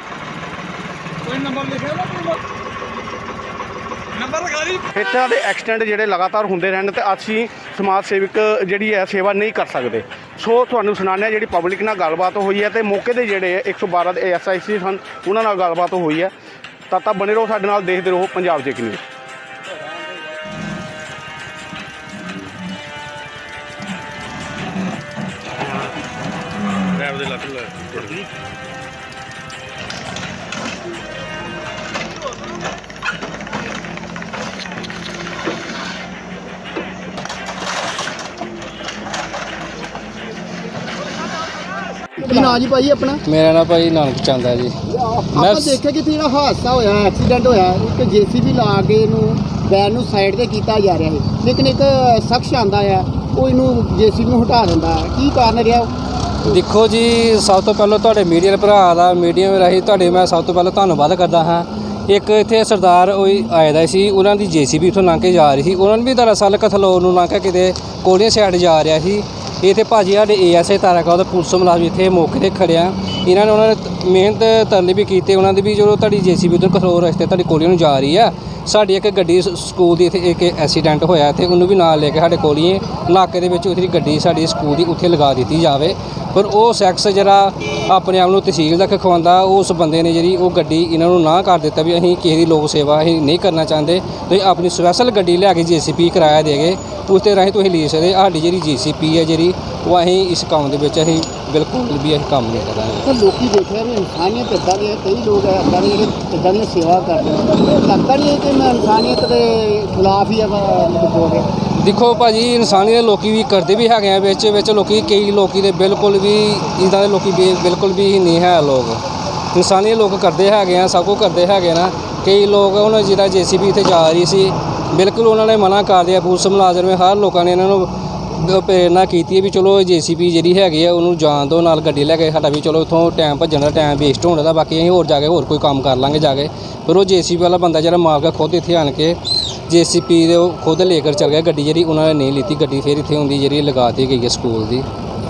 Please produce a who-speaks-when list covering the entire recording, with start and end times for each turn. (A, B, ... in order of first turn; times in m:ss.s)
0:04.9-0:16.3 A
0:16.9-0:19.0 A
0:42.2-0:43.2 B
0:43.3-0:44.8 C
0:44.9-0:55.9 B
0:45.4-0:45.8 C
0:56.4-1:43.0 C
1:43.0-1:51.5 B
1:51.8-1:59.0 C
1:59.5-2:19.2 C
2:19.7-2:24.9 C